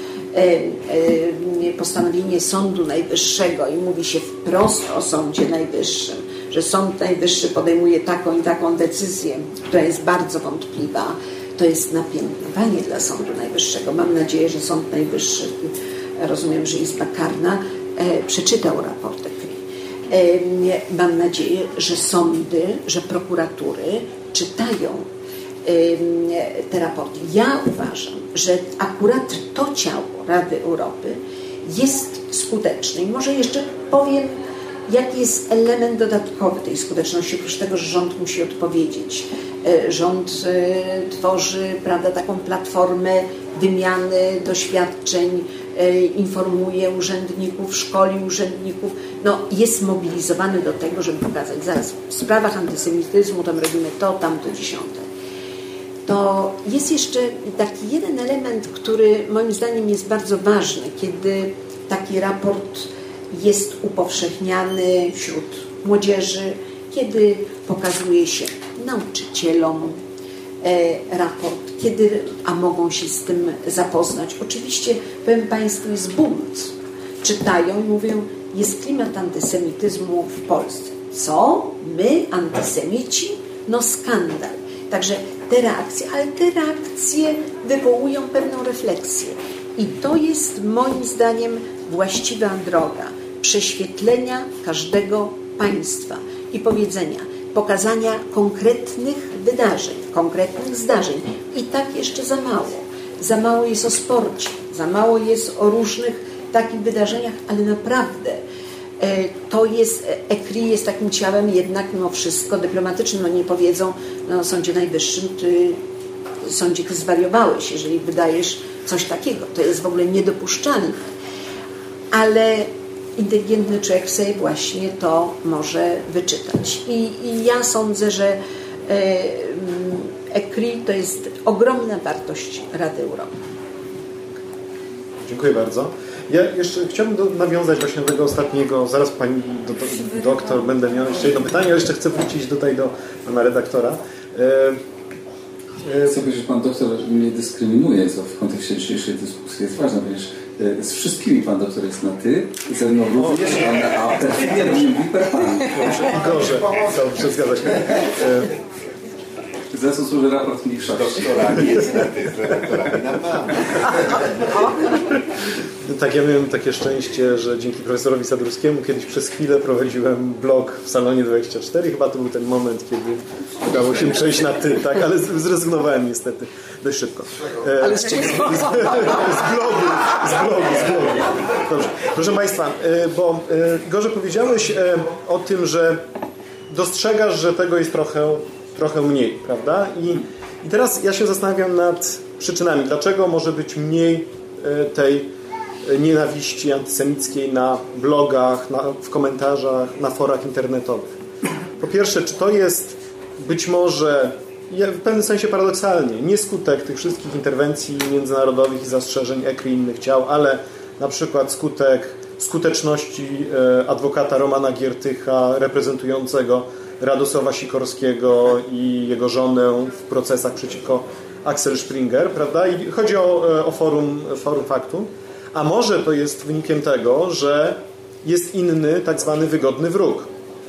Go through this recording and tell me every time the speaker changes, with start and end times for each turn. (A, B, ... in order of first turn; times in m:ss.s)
0:00.3-0:25.1 A
0:25.6-0:34.4 A
0:34.9-0:55.1 A
0:56.0-1:10.0 A
1:10.6-1:48.4 A
1:49.0-1:55.8 A
1:56.4-2:01.0 A
2:02.1-2:13.4 A
2:15.2-2:24.8 B
2:25.8-2:26.2 B
2:26.0-2:36.1 C
2:33.2-2:33.6 B
2:35.7-2:38.5 B
2:39.7-2:41.7 C
2:40.8-2:43.5 D
2:45.8-3:06.0 B
2:57.8-2:59.4 A
3:06.7-3:15.3 B
3:15.8-3:21.1 B
3:21.8-3:50.3 B